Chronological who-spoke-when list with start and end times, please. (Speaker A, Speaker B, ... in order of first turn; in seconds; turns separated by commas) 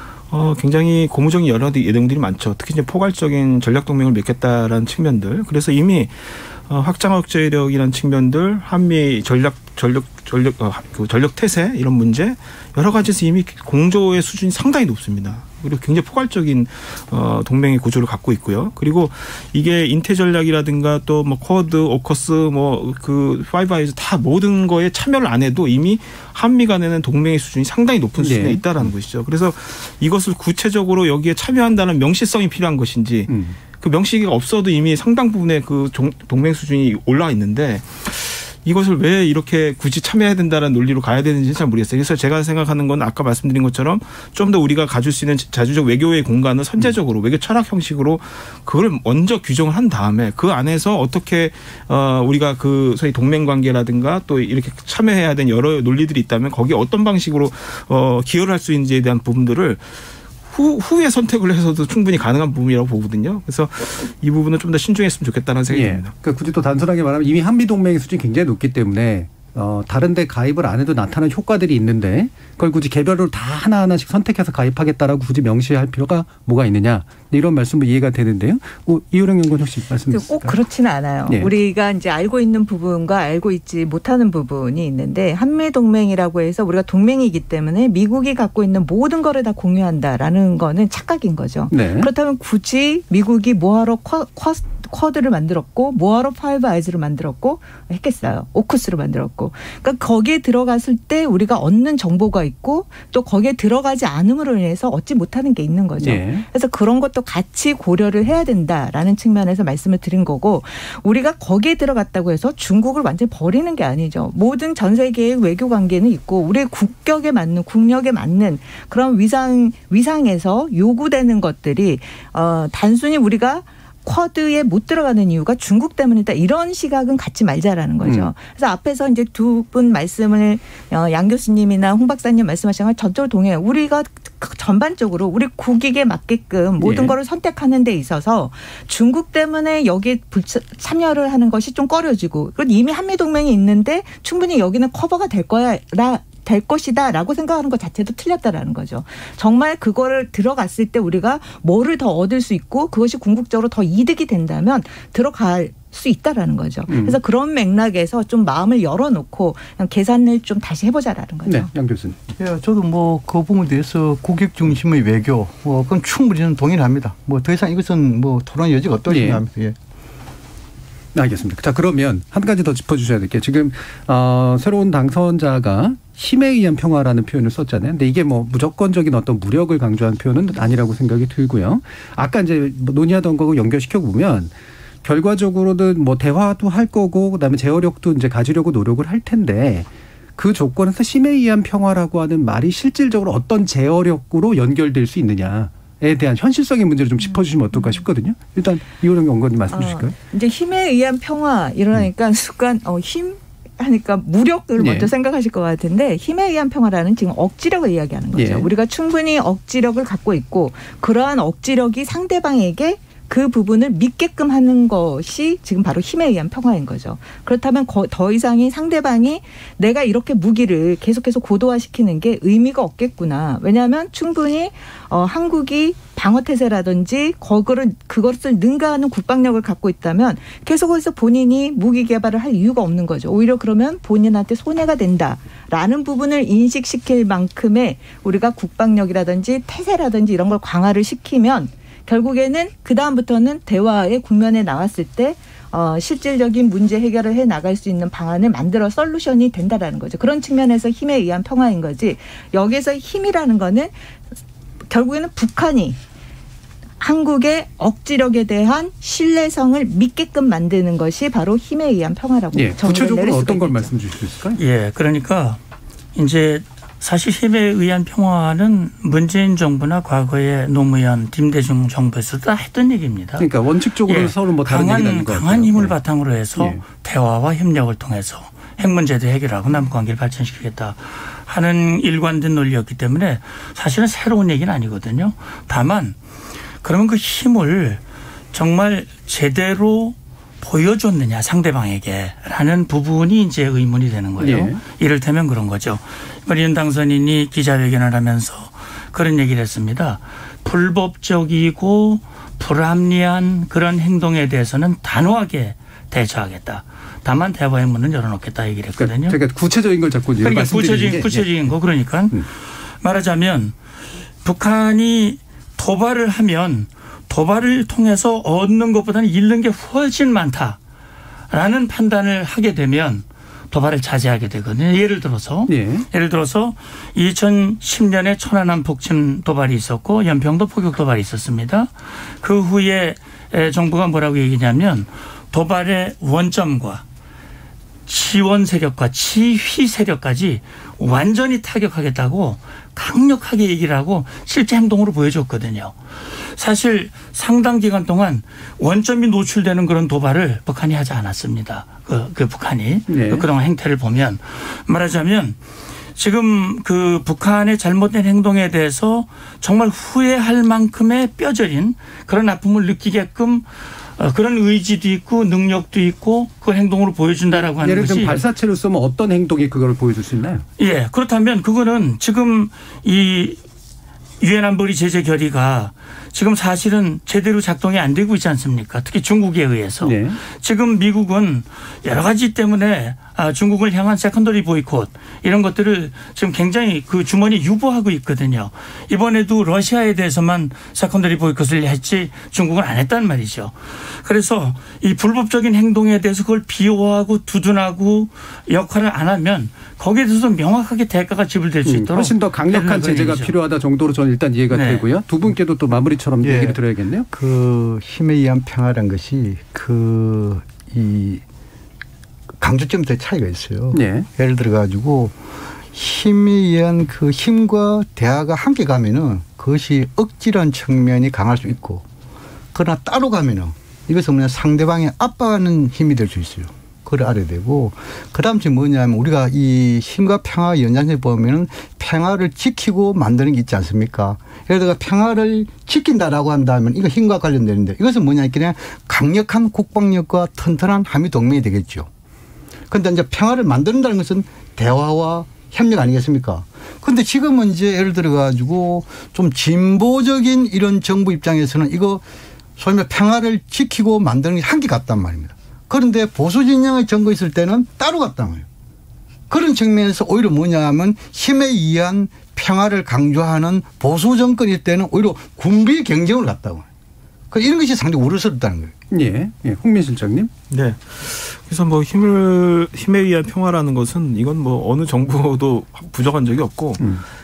Speaker A: 0.3-59.9, Speaker B: 28.2-28.9, Speaker B: 33.3-33.6, Speaker A: 60.5-66.1, Speaker B: 65.7-80.6, Speaker C: 80.1-161.7, Speaker B: 91.7-92.1, Speaker B: 106.0-106.5, Speaker B: 128.0-128.3, Speaker B: 136.8-137.2, Speaker B: 156.9-157.2, Speaker B: 161.5-162.2, Speaker D: 162.4-169.8, Speaker B: 169.1-169.4, Speaker B: 171.1-200.2, Speaker C: 197.3-198.1, Speaker C: 199.7-253.9, Speaker B: 204.8-205.1, Speaker B: 208.3-208.7, Speaker C: 254.9-256.0, Speaker C: 257.0-263.9, Speaker B: 262.5-264.6, Speaker E: 264.6-265.6, Speaker E: 266.1-273.5, Speaker B: 273.4-275.9, Speaker E: 274.1-286.2, Speaker B: 276.6-276.8, Speaker E: 286.8-288.0, Speaker E: 288.5-309.4, Speaker B: 294.4-294.8, Speaker B: 309.0-311.7, Speaker E: 310.4-312.5, Speaker E: 313.0-313.8, Speaker E: 314.4-320.8, Speaker E: 321.5-337.0, Speaker B: 325.7-326.1, Speaker E: 338.1-355.6, Speaker B: 353.1-353.5, Speaker E: 356.2-368.4, Speaker B: 367.6-370.6, Speaker E: 370.8-373.6, Speaker E: 374.4-403.5, Speaker B: 380.0-380.4, Speaker B: 401.9-407.3, Speaker E: 404.7-405.1, Speaker D: 406.4-406.8, Speaker D: 407.3-411.4, Speaker D: 412.6-415.4, Speaker B: 413.9-414.3, Speaker D: 415.9-422.1, Speaker D: 422.7-442.1, Speaker D: 442.9-452.2, Speaker D: 452.8-458.6, Speaker D: 459.5-466.9, Speaker D: 467.5-468.9, Speaker B: 469.1-470.5, Speaker A: 470.7-477.0